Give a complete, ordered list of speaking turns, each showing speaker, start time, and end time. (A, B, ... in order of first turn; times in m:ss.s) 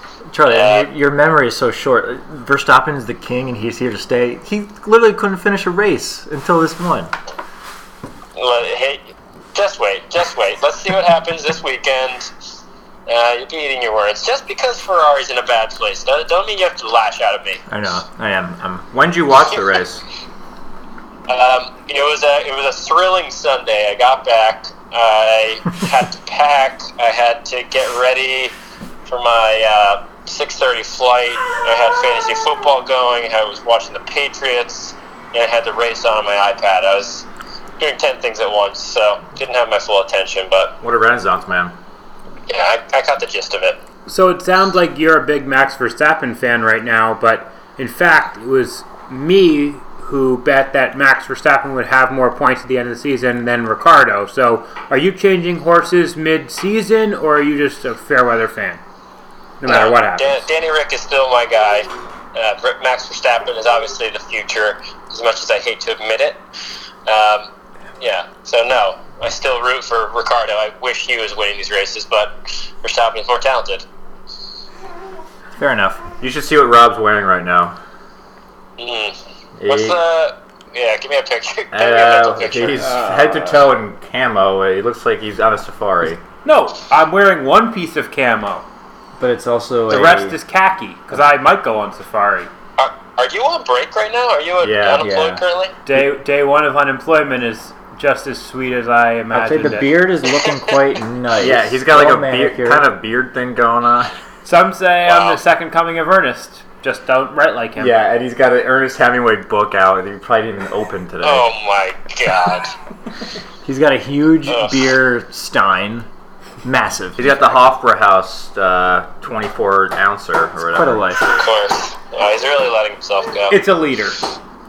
0:00.3-0:07.1 A
0:00.5-0:00.9 B
0:08.3-0:12.3 B
0:13.1-0:17.6 B
0:17.7-0:18.9 A
0:18.9-0:20.0 C
0:21.3-0:28.5 B
0:29.0-0:37.2 B
0:37.8-0:40.8 B
0:40.8-0:41.7 C
0:42.5-0:43.8 B
0:44.0-0:58.8 D
0:59.6-1:00.4 D
0:59.6-1:06.4 B
1:07.0-1:07.5 B
1:08.0-1:13.8 B
1:15.6-1:16.0 A
1:16.2-1:17.7 C
1:18.8-1:22.9 B
1:19.6-1:20.0 C
1:21.7-1:26.2 C
1:22.8-1:23.6 D
1:26.4-1:28.6 D
1:29.2-1:30.4 A
1:29.9-1:32.5 D
1:32.8-1:35.7 B
1:34.6-1:35.4 C
1:35.0-1:35.4 A
1:35.8-1:40.0 D
1:39.3-1:42.9 A
1:41.4-1:44.2 C
1:44.4-1:48.0 D
1:45.0-1:45.4 B
1:47.8-1:51.5 C
1:51.2-1:52.7 B
1:53.6-1:56.1 A
1:54.5-1:54.8 B
1:56.6-1:57.6 A
1:57.2-2:01.0 C
2:00.7-2:01.4 A
2:01.3-2:03.6 B
2:03.5-2:04.2 D